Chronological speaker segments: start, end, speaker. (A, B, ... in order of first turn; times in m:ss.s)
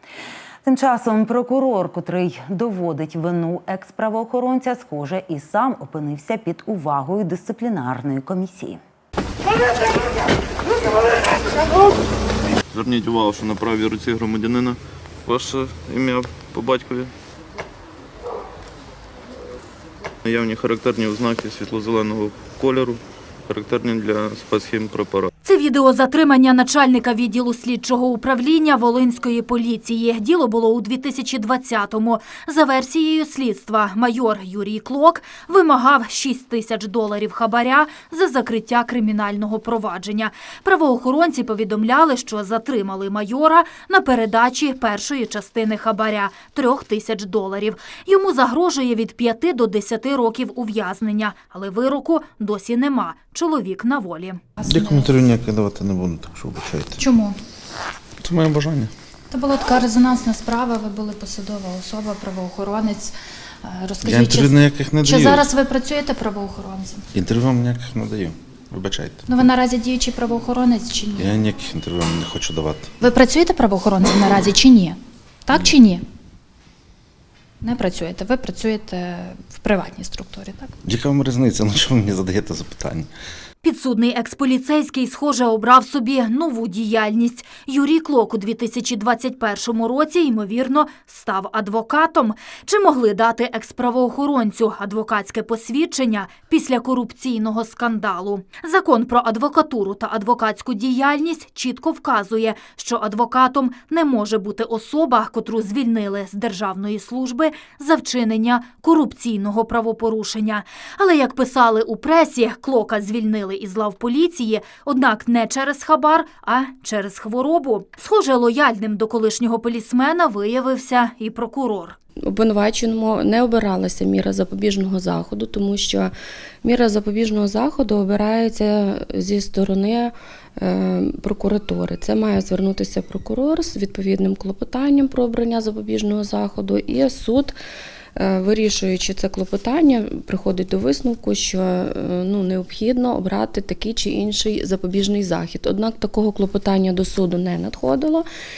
0:00.6-0:08.8 A
0:12.7-0:17.1 B
0:20.2-0:25.3 B
0:25.4-0:54.4 C
0:54.6-0:55.0 D
0:54.6-0:57.0 E
0:57.0-0:57.3 D
0:58.2-0:58.9 E
0:59.3-1:03.1 D
1:03.6-1:04.5 D
1:04.0-1:05.5 E
1:05.0-1:07.0 D
1:07.1-1:09.2 E
1:09.3-1:11.3 D
1:11.2-1:12.9 E
1:13.0-1:16.0 D
1:17.6-1:20.7 D
1:20.8-1:23.1 E
1:23.6-2:02.0 C
2:02.2-2:17.6 F
2:18.1-2:28.2 F